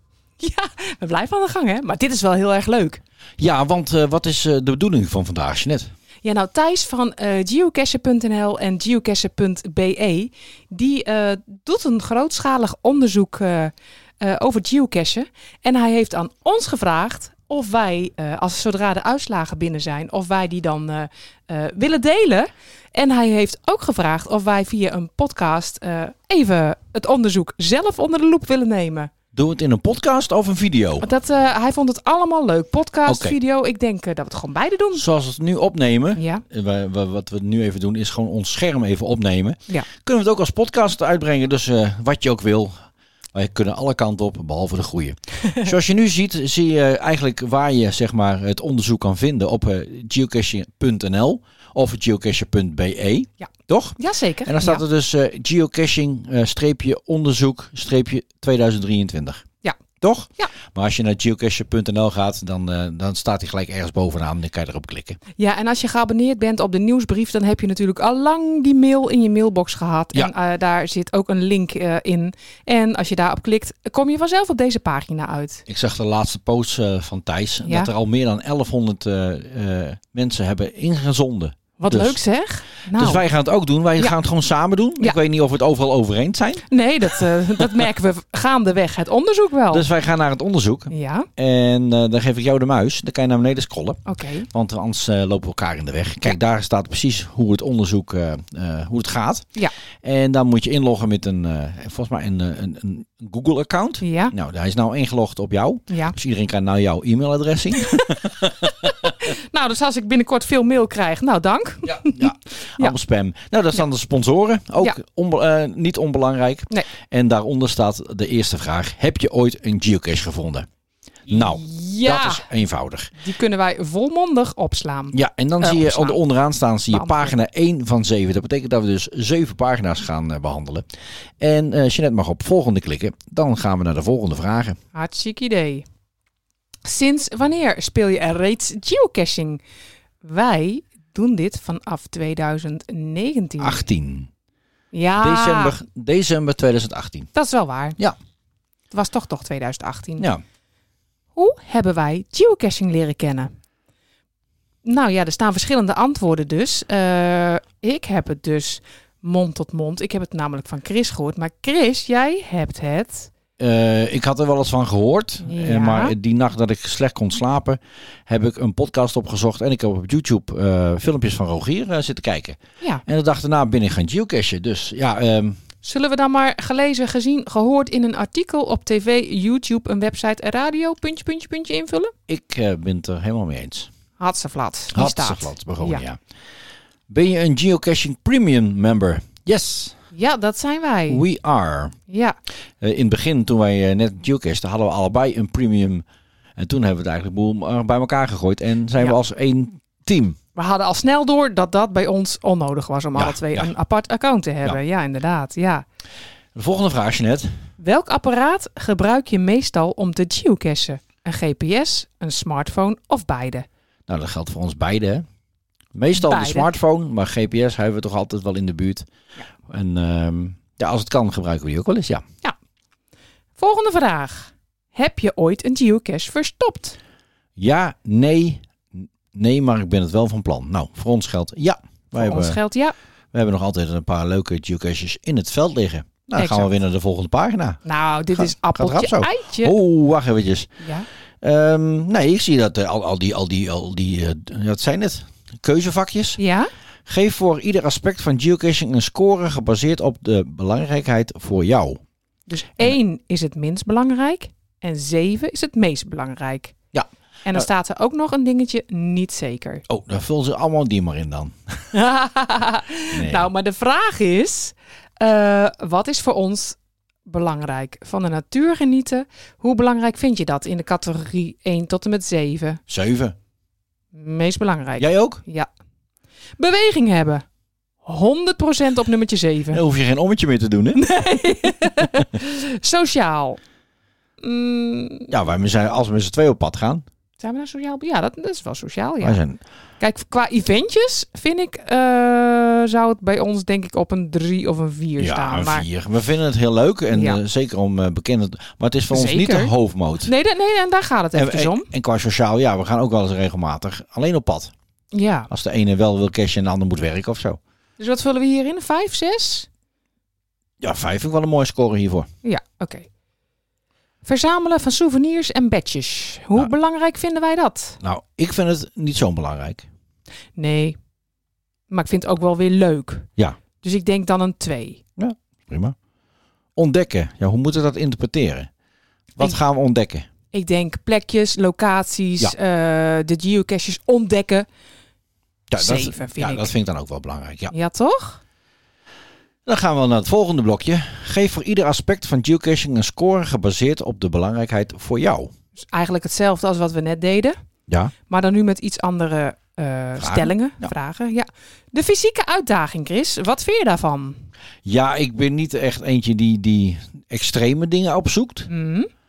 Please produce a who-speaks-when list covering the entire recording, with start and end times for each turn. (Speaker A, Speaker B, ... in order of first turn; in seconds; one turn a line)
Speaker A: 0.4-3.0
Speaker B: 3.4-5.9
Speaker A: 6.2-29.1
Speaker B: 29.3-31.1
Speaker A: 31.0-35.0
Speaker B: 33.0-33.4
Speaker B: 34.9-42.7
Speaker A: 36.1-36.4
Speaker B: 43.3-59.4
Speaker A: 53.4-54.8
Speaker B: 60.0-65.2
Speaker A: 65.4-75.6
Speaker B: 75.7-82.2
Speaker A: 77.6-77.9
Speaker A: 81.8-83.2
Speaker B: 82.9-87.8
Speaker A: 86.7-89.8
Speaker B: 89.7-99.5
Speaker A: 90.9-91.3
Speaker A: 94.1-94.5
Speaker B: 100.0-109.1
Speaker A: 104.0-104.3
Speaker A: 105.9-106.1
Speaker A: 107.8-112.9
Speaker B: 111.8-120.7
Speaker B: 121.3-123.2
Speaker A: 121.3-122.4
Speaker A: 123.2-126.2
Speaker B: 125.1-130.8
Speaker A: 126.9-127.3
Speaker B: 131.4-134.8
Speaker A: 134.9-135.8
Speaker A: 136.8-139.6
Speaker A: 140.2-143.8
Speaker B: 143.6-144.3
Speaker A: 144.9-145.8
Speaker B: 145.2-147.3
Speaker A: 147.3-148.0
Speaker A: 148.9-150.3
Speaker A: 151.3-153.5
Speaker A: 154.8-163.3
Speaker B: 163.6-175.6
Speaker A: 165.4-166.1
Speaker A: 175.8-182.1
Speaker B: 182.3-183.9
Speaker A: 184.2-186.0
Speaker B: 184.9-186.2
Speaker B: 187.1-189.9
Speaker A: 190.1-191.2
Speaker B: 191.1-191.9
Speaker A: 192.1-192.4
Speaker B: 192.8-196.0
Speaker B: 196.6-200.4
Speaker A: 200.6-205.8
Speaker B: 203.1-203.7
Speaker B: 206.5-207.5
Speaker A: 207.8-213.7
Speaker B: 214.1-215.2
Speaker B: 215.9-219.1
Speaker A: 216.1-216.7
Speaker B: 219.6-222.2
Speaker A: 223.6-227.0
Speaker B: 227.6-232.6
Speaker A: 232.1-232.9
Speaker B: 233.3-237.8
Speaker A: 236.4-236.7
Speaker A: 237.8-239.7
Speaker B: 238.3-240.7
Speaker A: 240.8-241.1
Speaker B: 241.4-246.4
Speaker A: 246.4-246.7
Speaker B: 247.1-252.0
Speaker A: 252.5-256.7
Speaker B: 256.9-257.7
Speaker A: 257.4-259.8
Speaker B: 259.9-261.8
Speaker A: 261.9-272.8
Speaker B: 263.1-263.5
Speaker B: 272.9-273.4
Speaker A: 274.1-275.7
Speaker B: 275.0-275.4
Speaker A: 276.6-277.4
Speaker A: 278.0-279.8
Speaker B: 279.7-281.0
Speaker A: 280.9-283.6
Speaker A: 284.4-285.3
Speaker B: 285.3-287.0
Speaker A: 287.4-289.4
Speaker B: 289.2-289.6
Speaker A: 290.0-295.9
Speaker B: 295.2-300.3
Speaker A: 297.1-297.4
Speaker A: 299.1-299.7
Speaker A: 300.2-301.9
Speaker B: 301.3-304.7
Speaker A: 305.1-305.5
Speaker B: 305.5-307.6
Speaker A: 308.0-309.7
Speaker B: 310.8-312.3
Speaker A: 312.4-313.1
Speaker A: 314.2-318.0
Speaker B: 318.0-319.9
Speaker A: 320.6-321.0
Speaker A: 321.9-323.3
Speaker A: 323.8-325.0
Speaker B: 325.2-325.9
Speaker B: 326.8-328.7
Speaker B: 329.3-330.3
Speaker A: 330.5-334.7
Speaker B: 335.7-337.7
Speaker A: 335.8-336.7
Speaker A: 337.7-338.4
Speaker B: 339.6-345.5
Speaker A: 345.9-347.6
Speaker B: 347.9-348.1
Speaker A: 348.3-354.4
Speaker B: 350.2-350.9
Speaker B: 354.8-358.7
Speaker A: 358.7-359.1